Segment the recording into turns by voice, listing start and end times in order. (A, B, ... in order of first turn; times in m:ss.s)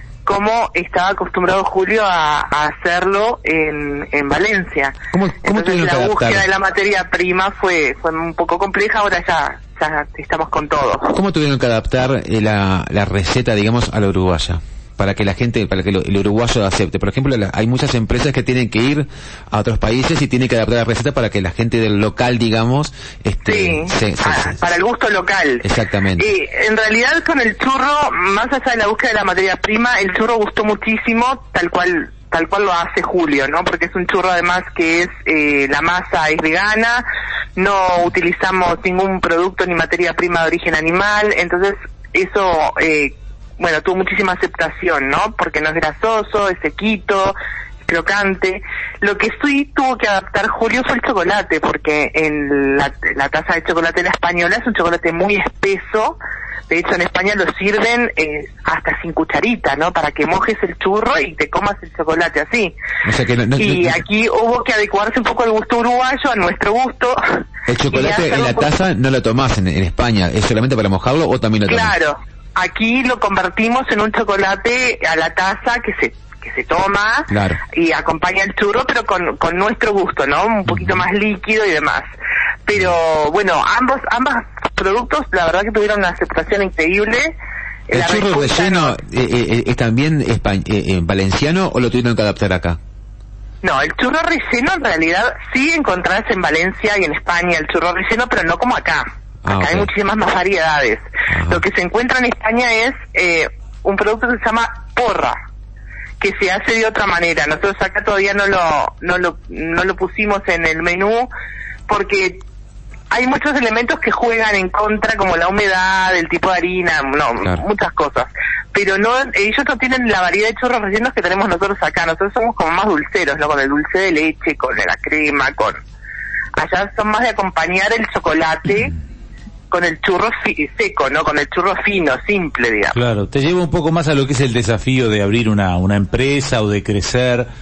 0:00.2-0:11.2 A
0:05.1-0:06.5 B
0:11.1-0:24.6 B
0:23.4-0:37.0 A
0:25.6-0:26.3 B
0:37.6-0:56.2 A
0:56.7-1:02.7 A
1:03.0-1:04.0 B
1:03.6-1:07.2 A
1:07.7-1:11.9 B
1:07.9-1:08.7 A
1:11.7-1:22.1 A
1:17.3-1:17.6 B
1:22.6-1:27.3 A
1:27.9-1:29.0 A
1:27.9-1:32.8 B
1:33.6-1:45.4 A
1:39.4-1:39.9 B
1:41.3-1:41.6 B
1:46.2-1:51.3 A
1:51.9-1:52.4 A
1:53.1-2:05.8 A
2:06.6-2:08.9 A
2:09.7-2:13.0 A
2:12.9-2:17.5 C